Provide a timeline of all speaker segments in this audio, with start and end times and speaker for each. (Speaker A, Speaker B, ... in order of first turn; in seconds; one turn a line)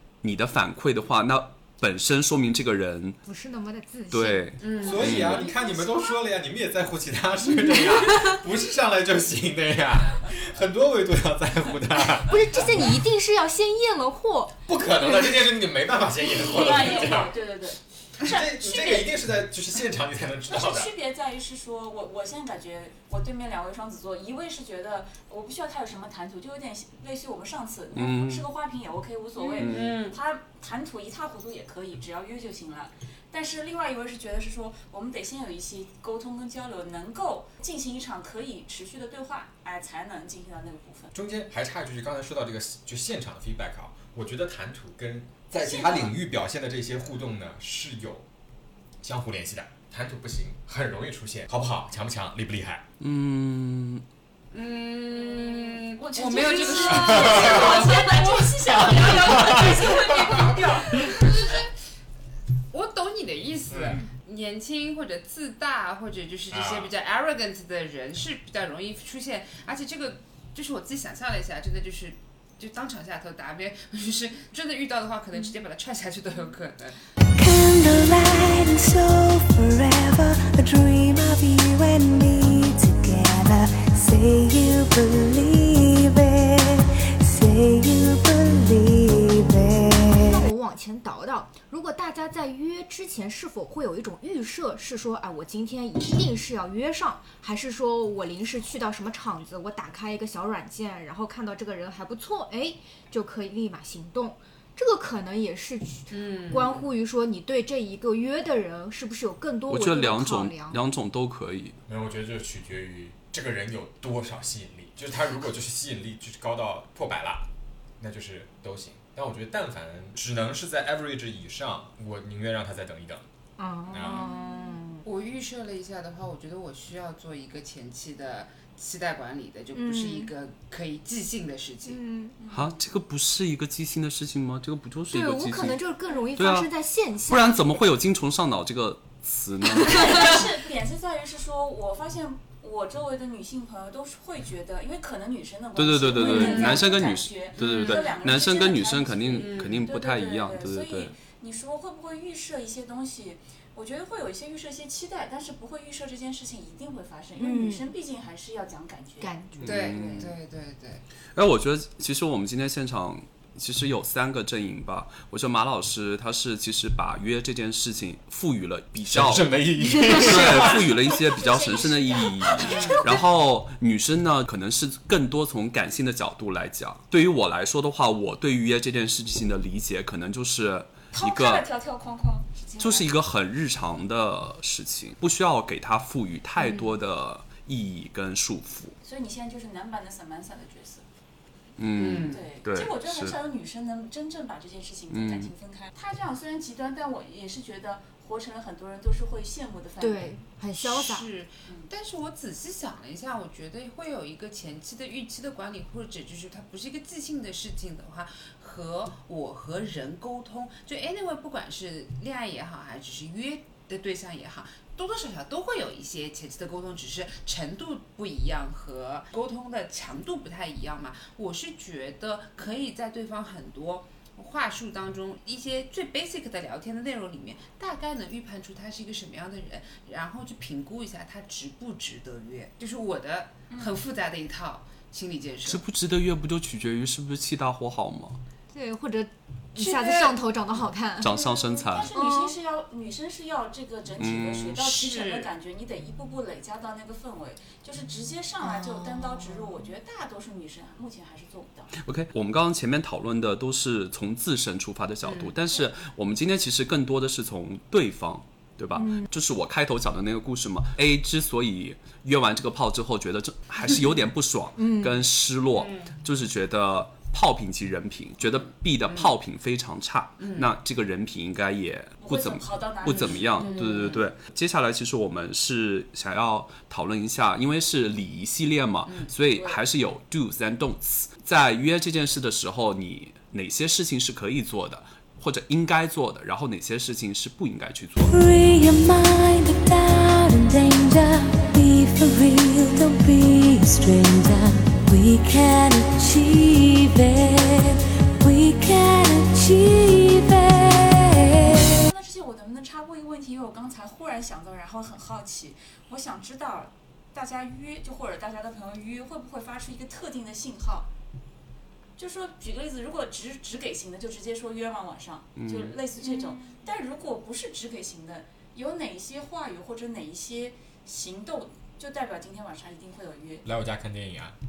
Speaker A: 0.2-3.2
Speaker B: 3.2-5.2
Speaker A: 4.1-5.4
Speaker C: 4.6-5.2
Speaker D: 4.8-12.9
Speaker B: 12.2-14.6
Speaker D: 14.7-17.4
Speaker E: 16.4-19.2
Speaker D: 18.2-20.9
Speaker E: 20.5-41.1
Speaker A: 27.9-28.4
Speaker C: 29.4-30.2
Speaker A: 29.6-30.0
Speaker D: 41.1-48.3
Speaker E: 45.5-46.1
Speaker D: 49.0-52.9
Speaker A: 53.0-54.0
Speaker C: 54.5-61.7
Speaker E: 55.1-61.3
Speaker D: 59.1-60.3
Speaker C: 62.7-77.0
Speaker D: 63.7-64.0
Speaker D: 66.5-66.9
Speaker F: 77.3-90.4
Speaker B: 90.3-110.8
Speaker C: 106.1-106.9
Speaker A: 109.7-111.8
Speaker D: 111.9-117.5
Speaker D: 118.0-123.2
Speaker B: 123.6-125.0
Speaker D: 123.9-124.3
Speaker C: 125.0-132.0
Speaker B: 129.7-130.3
Speaker B: 131.8-132.3
Speaker E: 132.4-132.7
Speaker A: 132.5-135.8
Speaker B: 135.1-137.6
Speaker A: 136.3-136.7
Speaker A: 137.2-140.4
Speaker B: 139.8-140.3
Speaker E: 139.8-159.3
Speaker A: 145.8-151.1
Speaker B: 146.2-146.8
Speaker C: 146.3-146.7
Speaker C: 147.6-148.1
Speaker C: 149.4-149.8
Speaker B: 157.4-157.8
Speaker B: 159.2-159.9
Speaker A: 159.6-160.3
Speaker C: 159.6-161.0
Speaker A: 161.3-181.7
Speaker D: 169.1-171.2
Speaker E: 170.3-173.1
Speaker C: 172.6-173.0
Speaker E: 181.1-183.0
Speaker C: 182.6-183.0
Speaker A: 182.8-188.9
Speaker E: 189.0-191.0
Speaker A: 191.8-193.3
Speaker C: 191.9-192.4
Speaker E: 192.2-200.3
Speaker A: 195.1-195.5
Speaker B: 200.0-201.3
Speaker C: 200.8-235.8
Speaker E: 201.6-201.9
Speaker E: 233.7-234.0
Speaker A: 235.6-238.4
Speaker B: 238.7-241.4
Speaker C: 239.8-240.4
Speaker A: 241.2-242.1
Speaker E: 241.3-252.0
Speaker B: 242.1-242.6
Speaker A: 244.2-244.8
Speaker C: 244.7-245.5
Speaker B: 248.7-249.6
Speaker A: 252.0-288.4
Speaker C: 255.2-255.6
Speaker B: 258.9-259.3
Speaker B: 264.8-265.2
Speaker C: 265.7-266.1
Speaker C: 269.0-269.3
Speaker C: 270.4-270.7
Speaker E: 272.2-273.8
Speaker C: 273.1-274.2
Speaker C: 279.1-279.3
Speaker E: 279.5-279.8
Speaker F: 288.2-302.0
Speaker E: 301.6-311.1
Speaker E: 312.2-323.6
Speaker A: 315.6-316.0
Speaker B: 316.2-316.6
Speaker D: 323.6-324.6